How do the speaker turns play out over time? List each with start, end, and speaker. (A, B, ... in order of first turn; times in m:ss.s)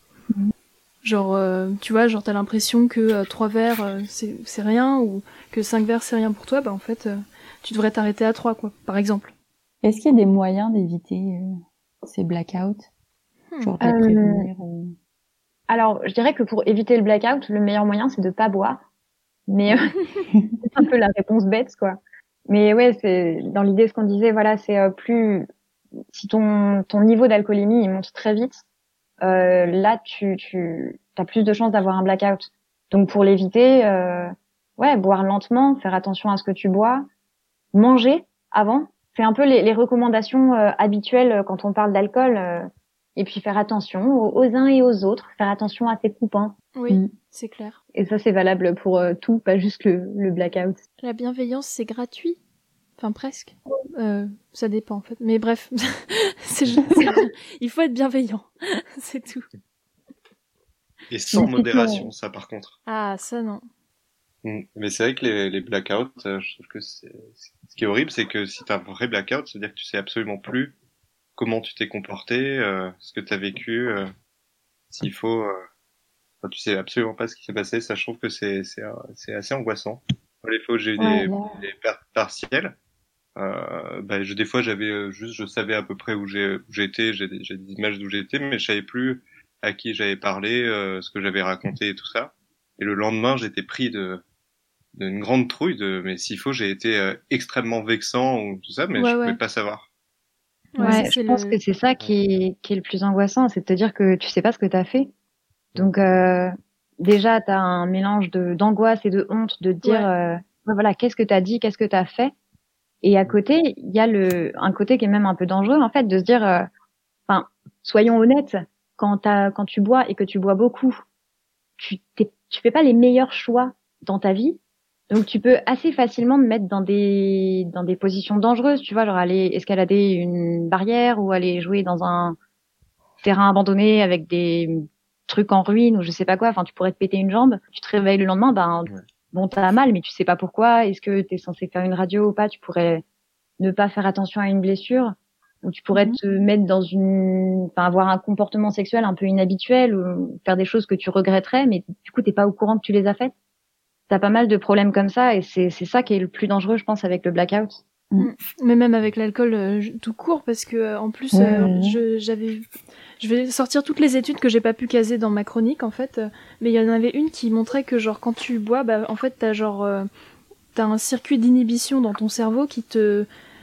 0:01.0-0:09.3 A
0:09.8-0:12.9 B
0:13.6-0:14.9 B
0:13.8-0:14.4 C
0:15.7-0:18.8 C
0:19.5-0:20.0 C
0:20.3-0:20.6 B
0:20.6-0:25.5 C
0:26.1-0:28.6 C
0:29.2-0:37.1 C
0:37.7-0:46.5 C
0:46.7-0:47.8 A
0:47.9-0:50.8 C
0:51.0-0:52.4 A
0:53.0-0:59.4 A
1:01.1-1:02.8 D
1:02.9-1:03.6 A
1:04.4-1:10.7 D
1:11.4-1:14.1 D
1:14.9-1:15.5 D
1:16.4-1:22.7 D
1:21.0-1:21.4 C
1:23.4-1:34.2 D
1:35.0-1:39.8 D
1:38.9-1:39.4 A
1:40.8-1:41.6 A
1:40.8-1:41.1 B
1:40.8-1:45.1 C
1:45.8-1:52.3 C
1:49.8-1:50.1 A
1:53.0-1:56.7 C
1:57.3-2:01.0 C
2:01.8-2:04.6 C
2:05.1-2:12.4 C
2:13.2-2:23.0 C
2:23.6-2:33.3 C
2:34.1-2:37.8 C
2:38.2-2:42.6 A
2:41.3-2:42.0 B
2:43.2-2:50.1 A
2:50.7-2:53.3 A